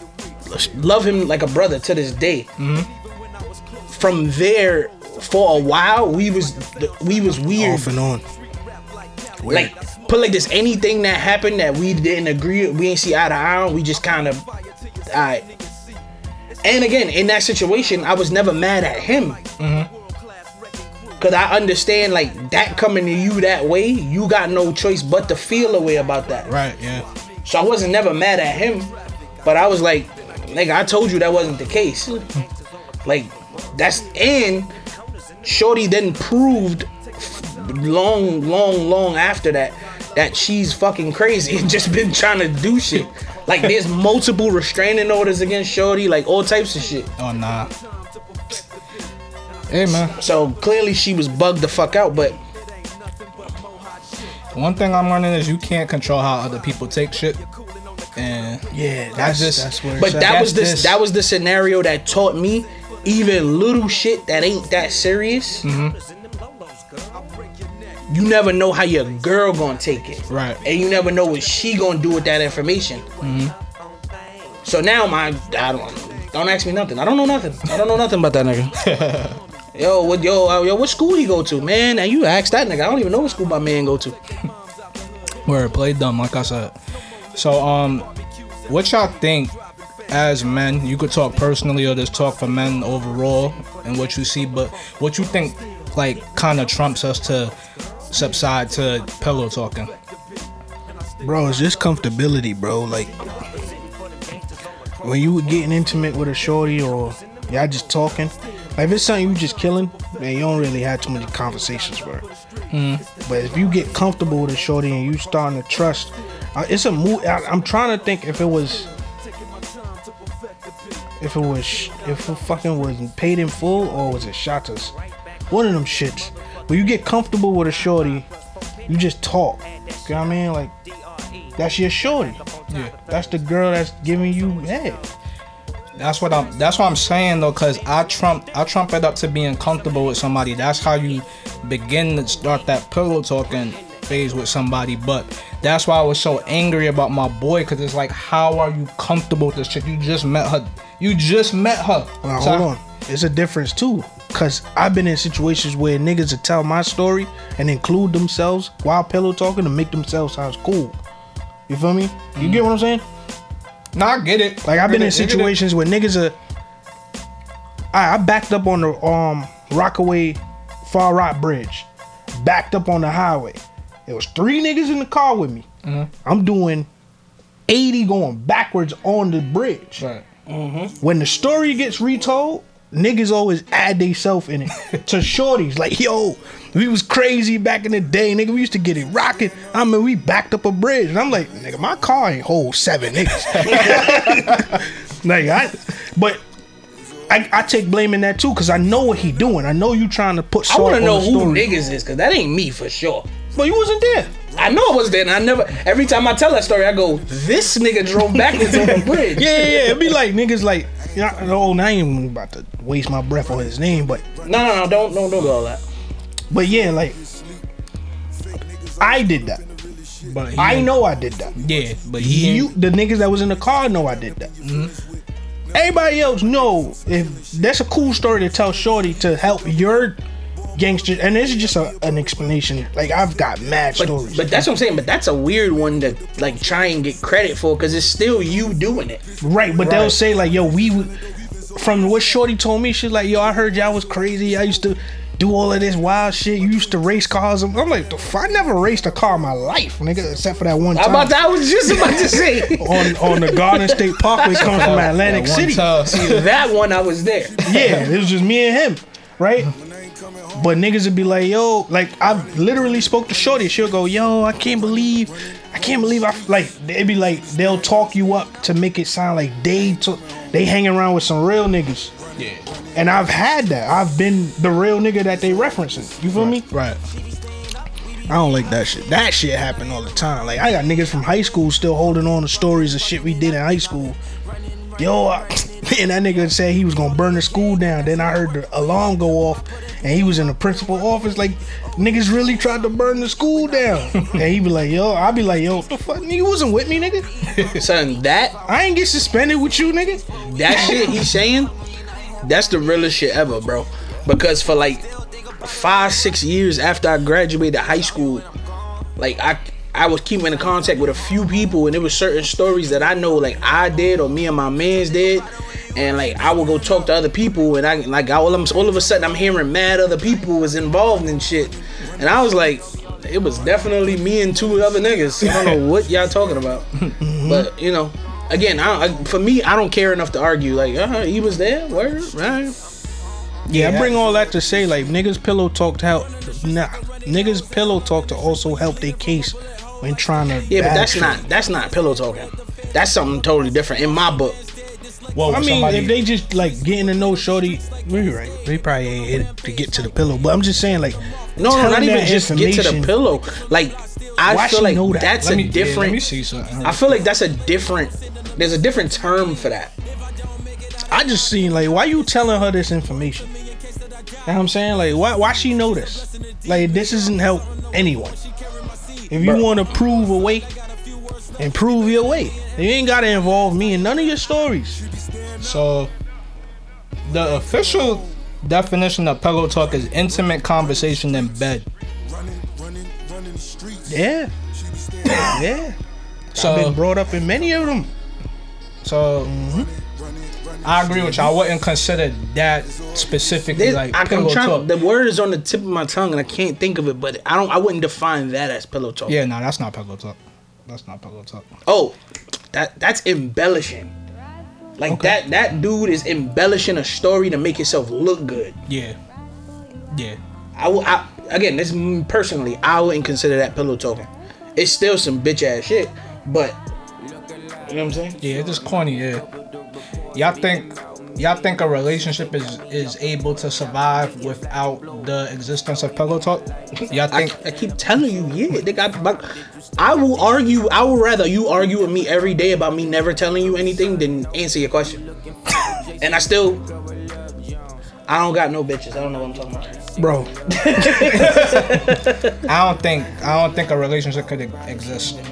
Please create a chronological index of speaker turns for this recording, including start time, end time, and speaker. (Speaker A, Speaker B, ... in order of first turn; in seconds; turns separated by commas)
Speaker A: 0.5-2.5, Speaker B: 2.6-2.9, Speaker A: 3.9-7.9, Speaker C: 7.6-8.2, Speaker C: 9.4-9.7, Speaker A: 9.5-14.5, Speaker A: 15.1-15.5, Speaker A: 16.6-19.4, Speaker B: 19.6-19.9, Speaker A: 21.2-26.5, Speaker B: 26.5-27.1, Speaker A: 27.4-32.3, Speaker A: 33.0-34.7, Speaker A: 35.4-47.1, Speaker B: 47.2-47.7, Speaker B: 49.7-50.1, Speaker A: 50.1-52.4, Speaker B: 54.5-57.4, Speaker B: 58.2-61.0, Speaker C: 58.7-60.4, Speaker A: 60.0-65.7, Speaker B: 65.6-66.0, Speaker A: 68.1-73.1, Speaker B: 70.3-70.6, Speaker B: 73.2-73.5, Speaker A: 74.6-78.8, Speaker B: 78.8-79.4, Speaker A: 79.8-84.2, Speaker B: 85.5-86.8, Speaker B: 87.3-88.1, Speaker B: 88.7-89.6, Speaker B: 90.1-97.5, Speaker B: 98.1-99.9, Speaker C: 101.2-103.3, Speaker C: 105.0-112.3, Speaker B: 112.7-113.0, Speaker C: 113.2-118.9, Speaker C: 121.2-124.9, Speaker C: 125.5-128.3, Speaker C: 128.9-130.7, Speaker C: 131.6-132.4, Speaker B: 132.7-132.9, Speaker C: 133.1-135.0, Speaker B: 136.0-152.7, Speaker C: 152.2-161.0, Speaker C: 161.7-163.1, Speaker B: 162.4-162.6, Speaker B: 163.9-165.6, Speaker C: 164.7-166.4, Speaker C: 167.9-175.7, Speaker B: 175.8-176.1, Speaker C: 176.2-176.9, Speaker C: 177.7-180.0, Speaker B: 180.0-180.2, Speaker A: 180.5-180.9, Speaker C: 181.0-196.4, Speaker B: 193.5-194.8, Speaker C: 197.3-201.7, Speaker A: 200.7-203.3, Speaker C: 203.6-204.3, Speaker A: 204.6-209.6, Speaker C: 208.5-214.2, Speaker A: 214.4-215.8, Speaker C: 216.5-217.2, Speaker C: 219.0-219.7, Speaker B: 220.2-220.9, Speaker C: 220.6-221.6, Speaker B: 221.6-222.7, Speaker C: 222.2-224.5, Speaker B: 224.6-224.9, Speaker C: 225.7-230.2, Speaker C: 230.8-234.7, Speaker A: 234.0-239.2, Speaker C: 239.4-241.2, Speaker A: 239.8-240.2, Speaker C: 241.8-255.9, Speaker A: 250.9-254.9, Speaker B: 254.5-256.5, Speaker A: 256.0-257.9, Speaker C: 257.6-259.7, Speaker B: 257.7-258.0, Speaker C: 260.5-272.1, Speaker B: 272.4-272.6, Speaker C: 272.9-276.6, Speaker B: 276.4-277.0, Speaker C: 278.3-284.2, Speaker C: 285.0-297.3, Speaker B: 297.5-297.8, Speaker A: 297.8-298.6, Speaker C: 298.6-301.1, Speaker A: 300.5-301.7, Speaker A: 302.4-305.1, Speaker A: 305.6-308.5, Speaker A: 309.2-326.9, Speaker B: 325.4-325.8, Speaker C: 327.2-327.7, Speaker A: 327.4-332.8, Speaker A: 333.7-334.1, Speaker C: 333.7-341.4, Speaker A: 340.7-344.6, Speaker B: 345.4-346.2, Speaker C: 345.5-353.1, Speaker A: 351.6-356.2, Speaker C: 354.5-355.4, Speaker B: 355.3-357.2, Speaker A: 356.9-359.9, Speaker C: 361.1-363.5, Speaker C: 364.5-368.4, Speaker C: 369.3-370.7, Speaker A: 369.4-369.7, Speaker C: 371.6-375.0, Speaker B: 375.6-376.1, Speaker B: 377.3-381.9, Speaker C: 384.1-384.5, Speaker C: 385.2-386.0, Speaker C: 386.5-388.1, Speaker B: 386.6-387.0, Speaker B: 389.0-389.5, Speaker C: 389.5-389.9, Speaker B: 390.8-394.9, Speaker A: 393.7-399.3, Speaker B: 399.3-401.7, Speaker A: 401.9-402.2, Speaker A: 402.7-404.1, Speaker A: 405.0-408.8, Speaker B: 408.9-409.2, Speaker B: 410.1-410.4, Speaker A: 410.8-416.8, Speaker A: 417.9-418.4, Speaker B: 418.4-419.5, Speaker B: 420.3-427.6, Speaker A: 427.3-435.3, Speaker A: 436.2-436.9, Speaker A: 438.3-440.0, Speaker C: 440.2-441.4, Speaker A: 440.7-442.6, Speaker B: 441.3-445.4